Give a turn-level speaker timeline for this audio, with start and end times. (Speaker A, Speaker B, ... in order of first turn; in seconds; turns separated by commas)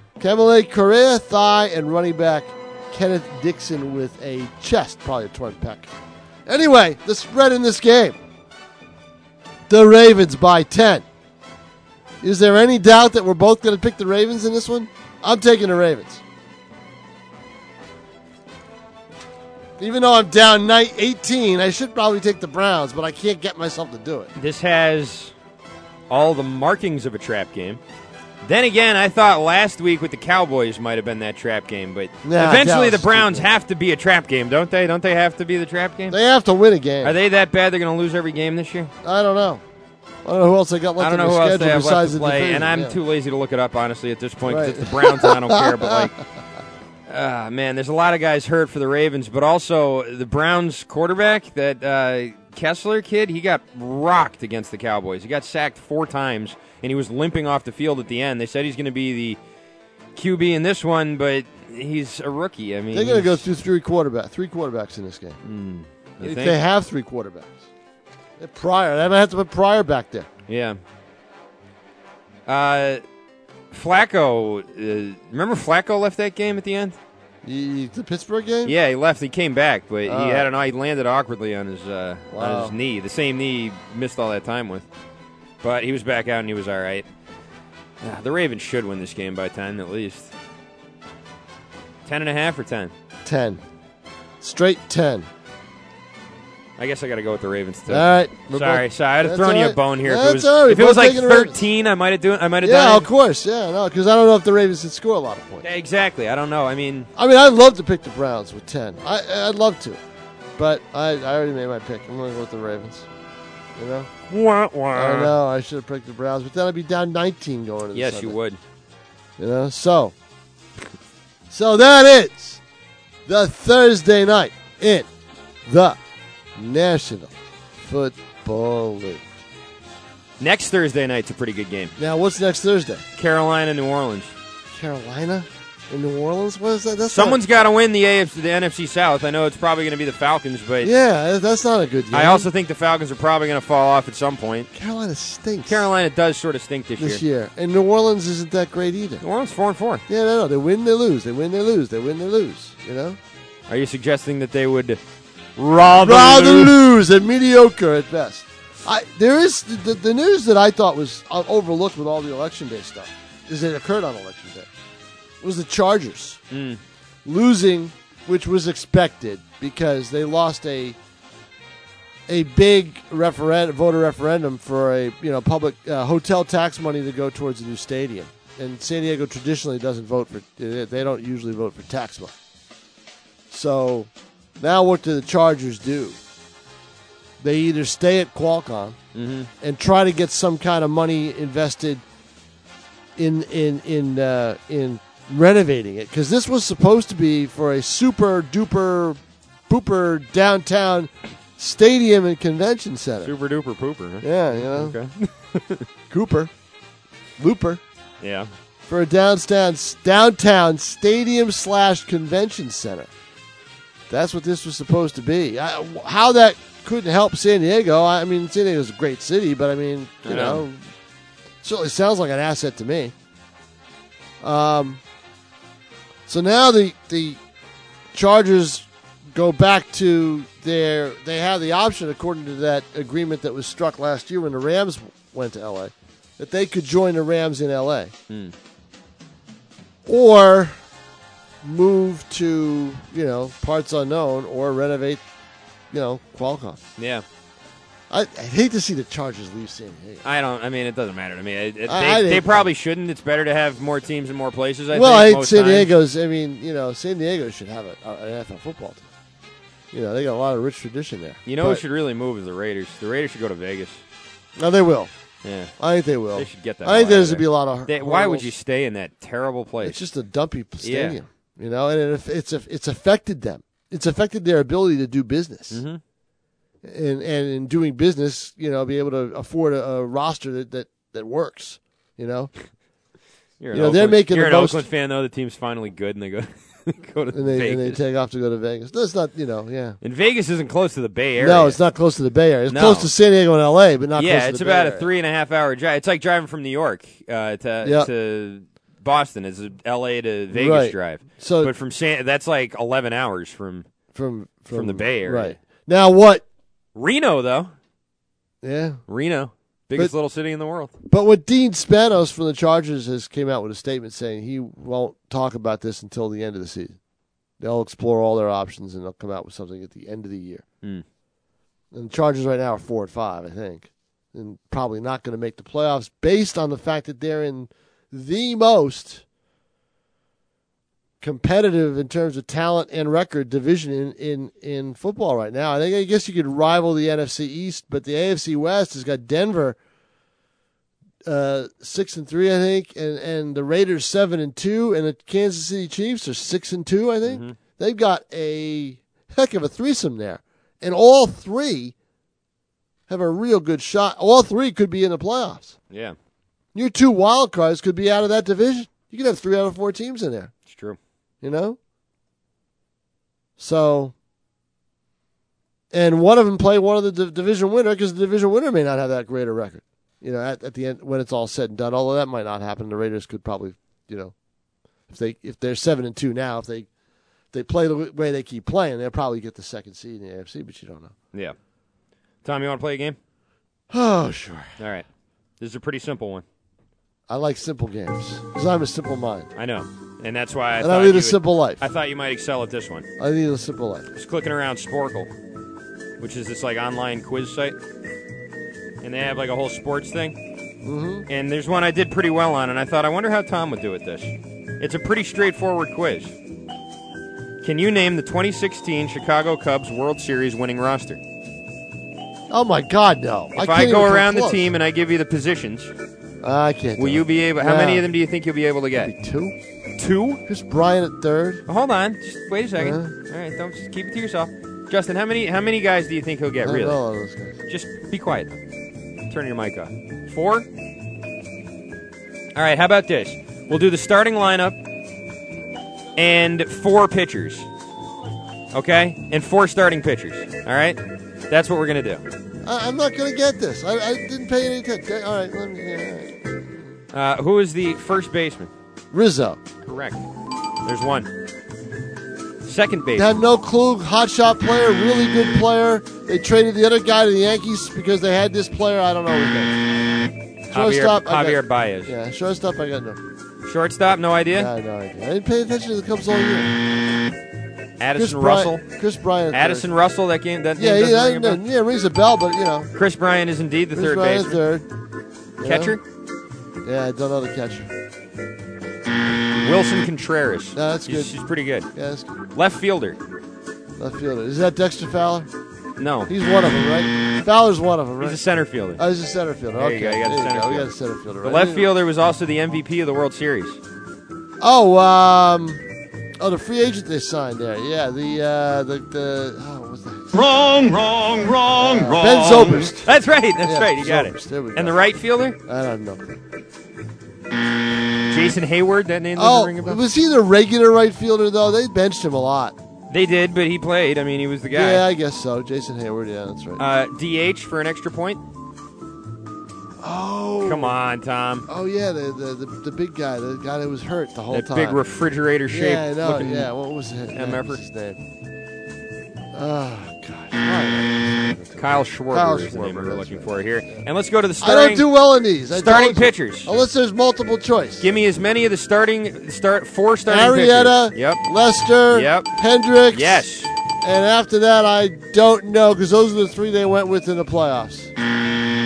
Speaker A: 0.2-5.9, Speaker A: 6.5-8.2, Speaker A: 9.7-11.1, Speaker A: 12.2-16.2, Speaker A: 19.8-24.3, Speaker B: 24.4-25.3, Speaker B: 26.1-27.8, Speaker B: 28.4-36.2, Speaker A: 32.2-33.5, Speaker A: 36.1-37.1, Speaker B: 37.0-38.9, Speaker A: 39.0-39.6, Speaker A: 40.2-43.0, Speaker B: 41.0-46.1, Speaker A: 44.5-46.2, Speaker B: 47.1-59.4, Speaker B: 60.1-63.4, Speaker A: 62.9-65.4, Speaker B: 65.4-66.6, Speaker A: 66.2-67.7, Speaker A: 68.4-70.3, Speaker B: 70.5-70.8, Speaker B: 72.5-73.0, Speaker B: 73.7-77.0, Speaker A: 77.4-78.8, Speaker B: 78.7-84.9, Speaker A: 80.1-80.5, Speaker A: 82.3-82.8, Speaker B: 85.6-87.1, Speaker B: 88.0-90.3, Speaker B: 92.0-92.9, Speaker A: 93.2-93.6, Speaker A: 94.4-95.3, Speaker B: 96.8-103.1, Speaker A: 97.9-101.6, Speaker A: 102.6-105.7, Speaker B: 105.6-107.1, Speaker A: 107.2-110.0, Speaker A: 110.6-113.1, Speaker A: 113.8-114.1, Speaker B: 114.3-115.3, Speaker A: 114.9-118.4, Speaker B: 117.9-118.6, Speaker A: 119.4-120.1, Speaker A: 121.5-122.6, Speaker A: 123.3-125.1, Speaker A: 125.7-126.0, Speaker A: 126.6-129.3, Speaker B: 130.4-131.9, Speaker A: 132.0-133.1, Speaker B: 133.2-134.3, Speaker A: 134.7-137.4, Speaker B: 137.1-140.9, Speaker A: 140.8-142.5, Speaker B: 142.1-144.7, Speaker A: 144.7-145.9, Speaker B: 145.7-147.2, Speaker A: 147.0-149.2, Speaker B: 149.2-150.0, Speaker A: 150.1-153.2, Speaker B: 153.7-155.0, Speaker B: 155.6-156.8, Speaker A: 156.0-164.7, Speaker A: 165.4-166.4, Speaker B: 166.5-166.8, Speaker A: 167.2-171.0, Speaker A: 172.3-182.3, Speaker A: 183.5-186.2, Speaker A: 187.4-189.0, Speaker B: 189.2-189.5, Speaker A: 189.6-192.0, Speaker A: 193.2-203.3, Speaker B: 203.2-205.8, Speaker A: 204.2-205.0, Speaker A: 206.1-206.5, Speaker A: 207.4-207.8, Speaker B: 208.2-208.5, Speaker A: 208.9-213.1, Speaker A: 214.1-220.8, Speaker B: 220.2-220.7, Speaker A: 221.6-223.1, Speaker A: 224.4-225.0, Speaker A: 226.3-227.4, Speaker A: 228.1-238.1, Speaker A: 240.1-240.8, Speaker A: 241.6-245.2, Speaker A: 245.9-246.8, Speaker B: 247.0-247.2, Speaker A: 248.1-250.2, Speaker B: 250.2-255.9, Speaker A: 251.9-252.7, Speaker A: 254.9-259.1, Speaker A: 259.9-261.8, Speaker B: 261.5-264.0, Speaker A: 264.6-265.1, Speaker B: 265.4-265.7, Speaker A: 265.8-268.5, Speaker B: 266.4-270.0, Speaker A: 269.8-275.8, Speaker B: 270.8-271.2, Speaker B: 275.7-276.0, Speaker A: 276.8-282.5, Speaker B: 283.6-288.0, Speaker A: 283.7-284.9, Speaker A: 287.3-290.0, Speaker B: 290.0-291.8, Speaker A: 291.4-295.1, Speaker B: 292.7-293.1, Speaker B: 294.2-303.9, Speaker A: 297.8-298.1, Speaker A: 300.5-301.7, Speaker A: 304.1-306.4, Speaker B: 304.7-305.6, Speaker B: 306.9-307.7, Speaker A: 308.6-309.0, Speaker B: 309.1-310.9, Speaker A: 311.1-317.0, Speaker A: 317.6-320.6, Speaker A: 321.9-329.2, Speaker A: 331.2-339.8, Speaker A: 341.2-351.9, Speaker B: 347.3-347.6, Speaker A: 353.1-355.8, Speaker A: 356.8-360.5, Speaker B: 360.7-361.0, Speaker A: 361.4-361.8, Speaker A: 363.6-364.1, Speaker A: 365.9-374.3, Speaker A: 375.1-376.9, Speaker A: 377.5-381.1, Speaker B: 382.4-383.2, Speaker A: 383.9-384.8, Speaker B: 384.8-385.1, Speaker B: 385.6-386.4, Speaker A: 387.3-389.5, Speaker B: 389.6-393.1, Speaker A: 390.8-391.8, Speaker A: 393.2-394.1, Speaker B: 394.1-395.3, Speaker B: 396.2-397.8, Speaker B: 399.0-400.4, Speaker A: 400.8-401.3, Speaker B: 401.3-406.3, Speaker B: 407.6-411.2, Speaker A: 412.5-414.7, Speaker B: 413.6-415.9, Speaker A: 416.4-418.1, Speaker B: 417.0-419.1, Speaker A: 418.9-419.6, Speaker B: 420.0-420.4, Speaker A: 420.5-421.6, Speaker B: 421.7-427.0, Speaker A: 422.8-423.1, Speaker A: 426.6-427.6, Speaker B: 427.7-428.5, Speaker B: 429.3-430.7, Speaker B: 432.6-434.8, Speaker B: 436.2-437.7, Speaker B: 438.7-442.2, Speaker A: 442.6-447.0, Speaker B: 447.1-448.7, Speaker A: 449.1-449.6, Speaker B: 449.9-450.2, Speaker B: 450.9-451.3, Speaker B: 452.6-453.4, Speaker A: 453.2-459.8, Speaker A: 460.7-463.2, Speaker B: 460.7-462.1, Speaker B: 463.6-464.7, Speaker A: 464.5-466.8, Speaker B: 468.0-468.9, Speaker A: 468.2-469.9, Speaker B: 469.5-471.6, Speaker A: 470.8-472.9, Speaker B: 472.9-474.6, Speaker A: 473.9-474.9, Speaker A: 475.6-476.0, Speaker B: 475.6-476.0, Speaker A: 476.8-477.9, Speaker B: 479.6-481.9, Speaker A: 480.7-481.3, Speaker A: 481.9-482.3, Speaker B: 482.5-483.2, Speaker A: 484.0-485.5, Speaker B: 486.0-486.3, Speaker A: 486.3-488.4, Speaker B: 488.2-489.0, Speaker A: 489.0-491.9, Speaker B: 489.8-490.9, Speaker B: 491.4-493.8, Speaker A: 494.6-495.9, Speaker A: 496.4-500.4, Speaker C: 500.3-503.0, Speaker A: 501.7-503.0, Speaker B: 503.0-505.6, Speaker A: 503.6-505.0, Speaker A: 505.6-506.4, Speaker B: 508.3-510.0, Speaker A: 509.4-512.8, Speaker B: 513.1-515.0, Speaker A: 514.7-516.8, Speaker B: 516.8-518.4, Speaker A: 520.0-520.9, Speaker B: 520.6-521.7, Speaker A: 521.7-525.0, Speaker B: 524.5-526.7, Speaker A: 525.7-528.2, Speaker B: 527.3-527.8, Speaker A: 529.5-534.0, Speaker B: 531.8-535.1, Speaker A: 534.6-538.1, Speaker B: 535.7-536.7, Speaker B: 538.0-541.4, Speaker A: 540.3-543.5, Speaker B: 542.1-542.5, Speaker B: 543.1-543.7, Speaker A: 544.0-548.1